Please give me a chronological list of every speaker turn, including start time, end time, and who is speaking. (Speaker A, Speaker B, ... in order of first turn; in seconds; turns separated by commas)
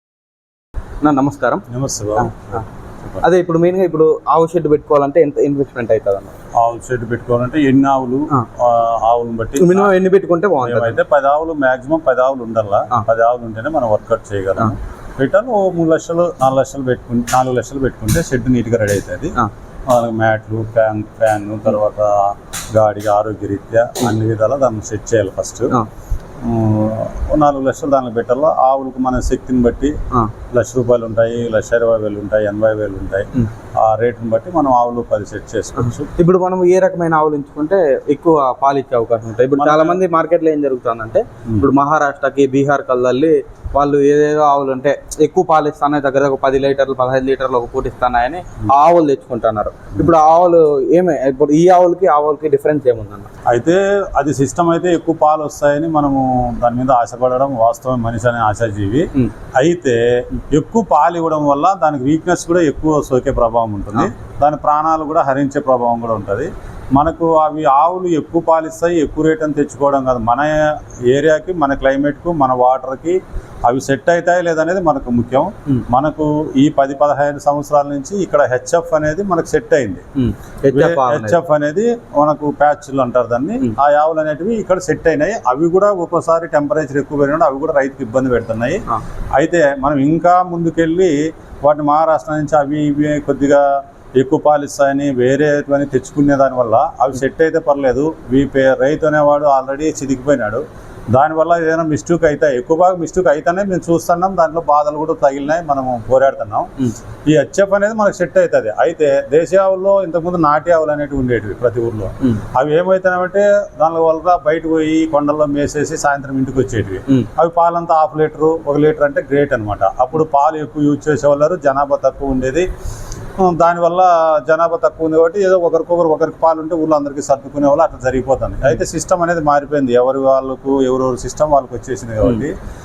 Speaker A: 1.0-1.6, Speaker B: 1.7-3.2, Speaker A: 2.2-2.5, Speaker A: 3.2-6.3, Speaker B: 6.6-9.9, Speaker A: 9.6-11.0, Speaker B: 10.6-19.4, Speaker B: 19.9-25.8, Speaker B: 26.4-29.9, Speaker B: 30.5-33.3, Speaker B: 33.8-36.1, Speaker A: 36.2-53.3, Speaker B: 39.6-40.0, Speaker B: 53.5-80.0, Speaker A: 80.2-81.4, Speaker B: 80.7-88.8, Speaker B: 89.4-93.6, Speaker B: 94.2-106.7, Speaker B: 107.3-122.7, Speaker B: 123.4-132.6